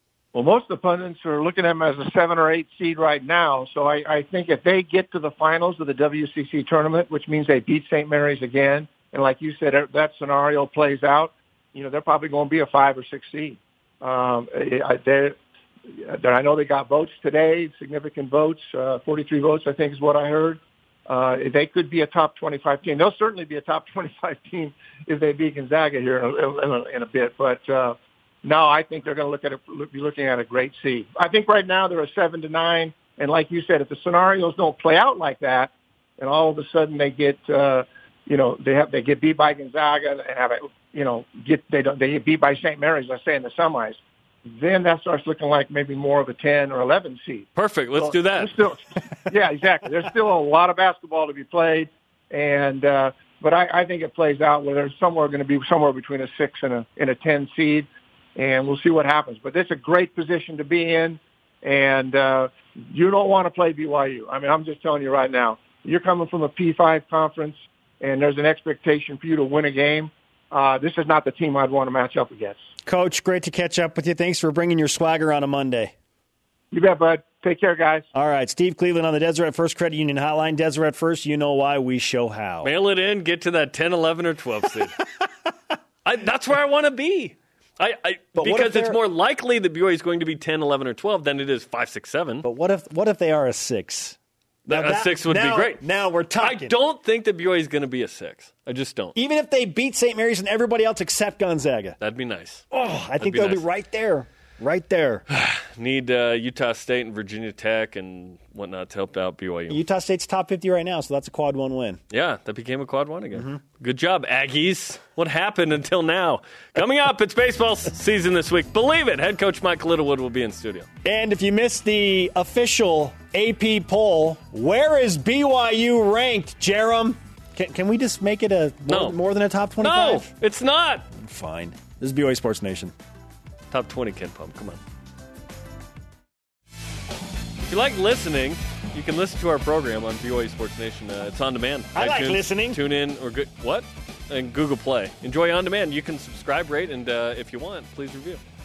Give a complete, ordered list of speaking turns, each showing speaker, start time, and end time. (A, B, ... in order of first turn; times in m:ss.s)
0:00.3-0:15.4 A
0:15.9-1:12.6 A
0:47.6-0:48.5 B
1:12.8-1:15.9 C
1:16.7-1:18.1 A
1:18.1-1:22.7 C
1:22.6-1:25.0 B
1:26.0-1:32.4 B
1:28.4-1:29.0 C
1:32.4-1:34.2 C
1:34.6-1:35.8 B
1:34.7-1:36.7 C
1:36.4-1:39.2 B
1:39.2-1:42.0 C
1:42.0-1:42.6 B
1:42.7-1:45.2 C
1:43.2-1:43.6 B
1:45.3-1:49.8 B
1:49.7-1:52.0 C
1:52.1-2:00.9 B
1:53.3-1:53.6 C
2:01.0-2:10.3 C
2:08.9-2:09.2 B
2:09.8-2:11.0 B
2:11.1-2:12.9 C
2:13.7-2:14.8 B
2:17.6-2:28.4 B
2:21.9-2:22.8 C